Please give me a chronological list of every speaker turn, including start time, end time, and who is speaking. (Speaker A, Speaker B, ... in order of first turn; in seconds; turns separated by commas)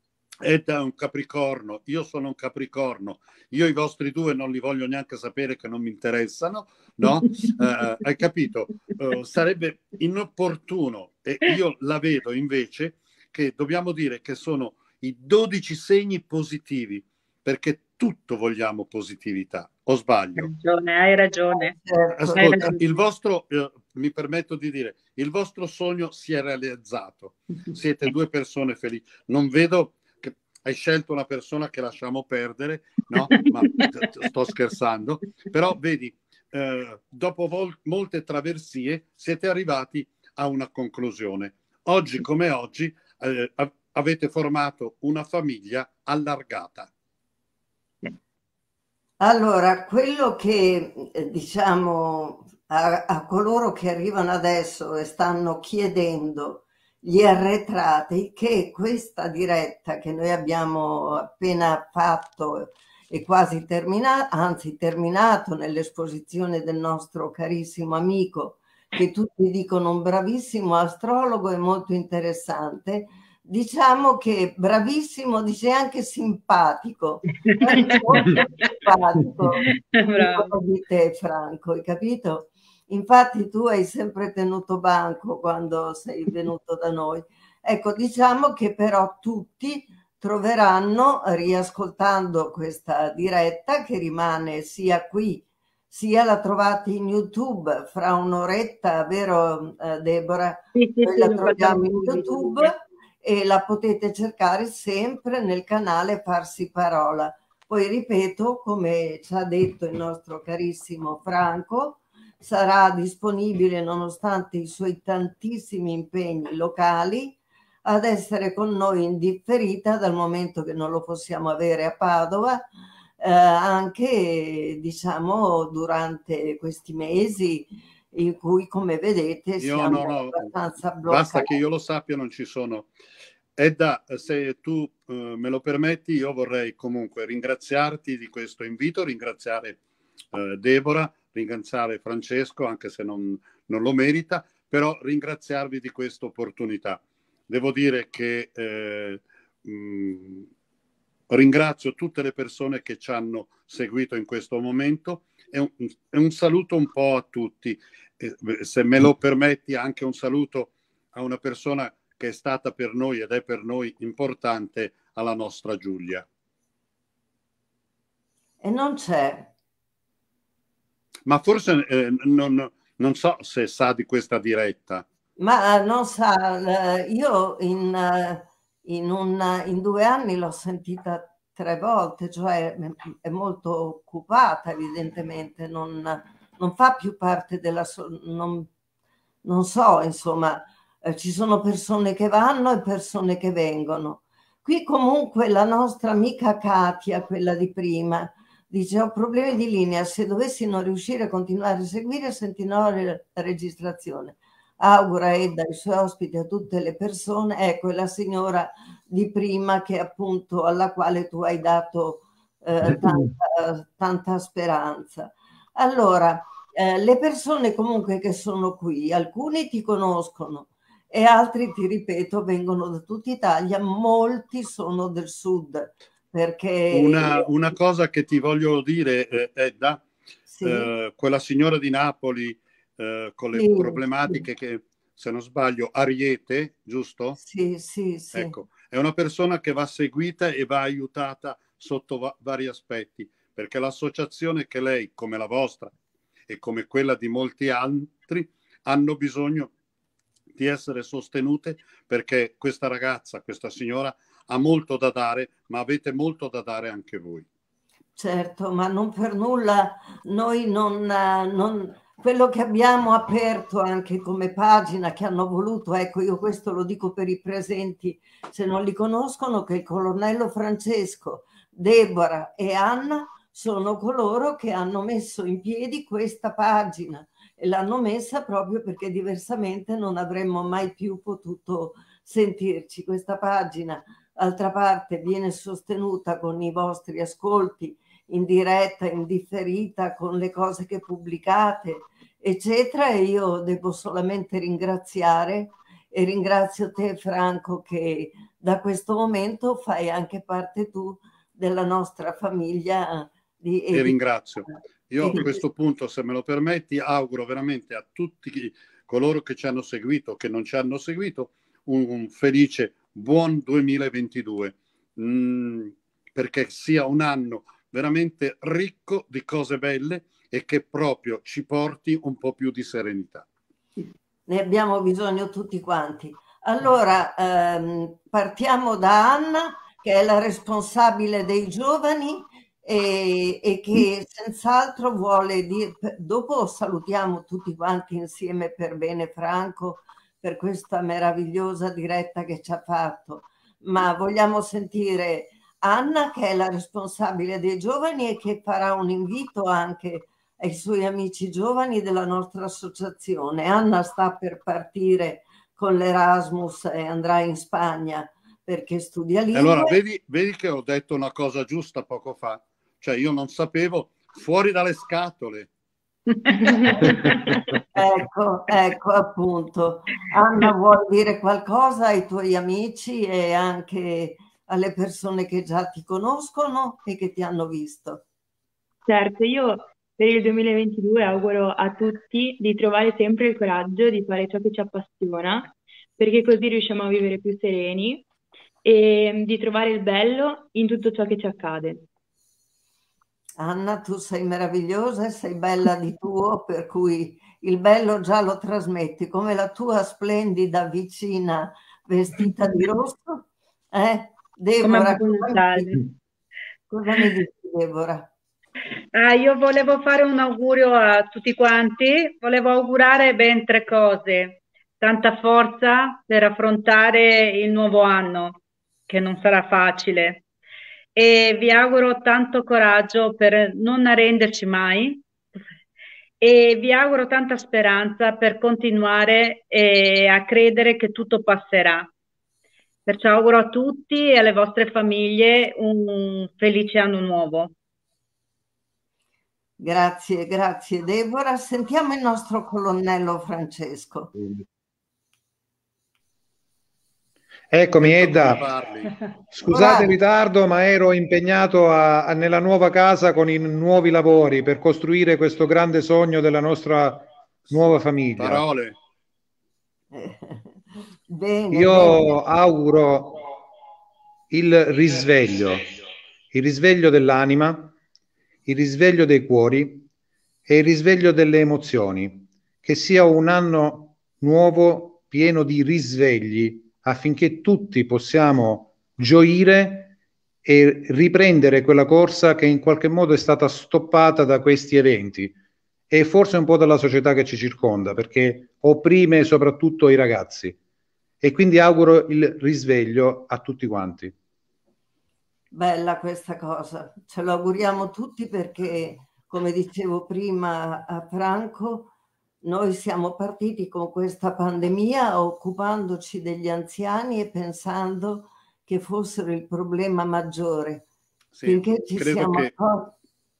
Speaker A: 0.4-20.5, Speaker B: 20.4-21.8, Speaker C: 21.7-22.8, Speaker A: 22.1-46.9, Speaker B: 22.4-22.8, Speaker C: 49.2-122.7, Speaker B: 78.2-78.4, Speaker B: 79.9-80.5, Speaker B: 100.7-102.7, Speaker C: 123.2-131.5, Speaker A: 129.6-130.5, Speaker A: 131.1-132.9, Speaker A: 133.6-139.8, Speaker A: 140.3-150.5, Speaker A: 151.3-166.2, Speaker C: 168.6-169.5, Speaker A: 171.2-175.0, Speaker C: 175.4-188.7, Speaker C: 189.4-227.4, Speaker A: 226.9-230.0, Speaker C: 230.5-230.9, Speaker A: 230.6-237.4, Speaker C: 233.5-234.4, Speaker C: 237.4-238.5, Speaker A: 238.3-245.9, Speaker A: 246.5-249.7, Speaker A: 250.5-257.4, Speaker C: 258.1-305.6, Speaker A: 303.9-323.4, Speaker C: 324.5-360.0, Speaker A: 359.5-365.7, Speaker B: 366.3-367.6, Speaker C: 367.9-378.2, Speaker D: 379.1-388.2, Speaker D: 388.8-392.0, Speaker C: 393.6-406.0, Speaker B: 404.8-406.1, Speaker C: 406.9-408.3, Speaker B: 409.1-420.4, Speaker B: 421.1-425.3, Speaker B: 426.4-432.1, Speaker B: 433.1-437.7, Speaker C: 439.8-444.3, Speaker E: 447.7-448.7, Speaker A: 448.0-449.1, Speaker E: 449.5-458.6, Speaker C: 449.7-450.0, Speaker A: 458.4-458.9, Speaker C: 460.1-460.7, Speaker C: 461.3-462.4, Speaker E: 461.7-463.4, Speaker E: 464.5-465.9, Speaker E: 466.5-467.9, Speaker E: 468.6-470.1, Speaker E: 470.7-480.1, Speaker E: 480.6-485.6, Speaker E: 486.1-490.8, Speaker E: 491.4-494.3, Speaker C: 495.7-502.1, Speaker C: 502.6-511.0, Speaker A: 511.5-512.7, Speaker C: 511.6-513.1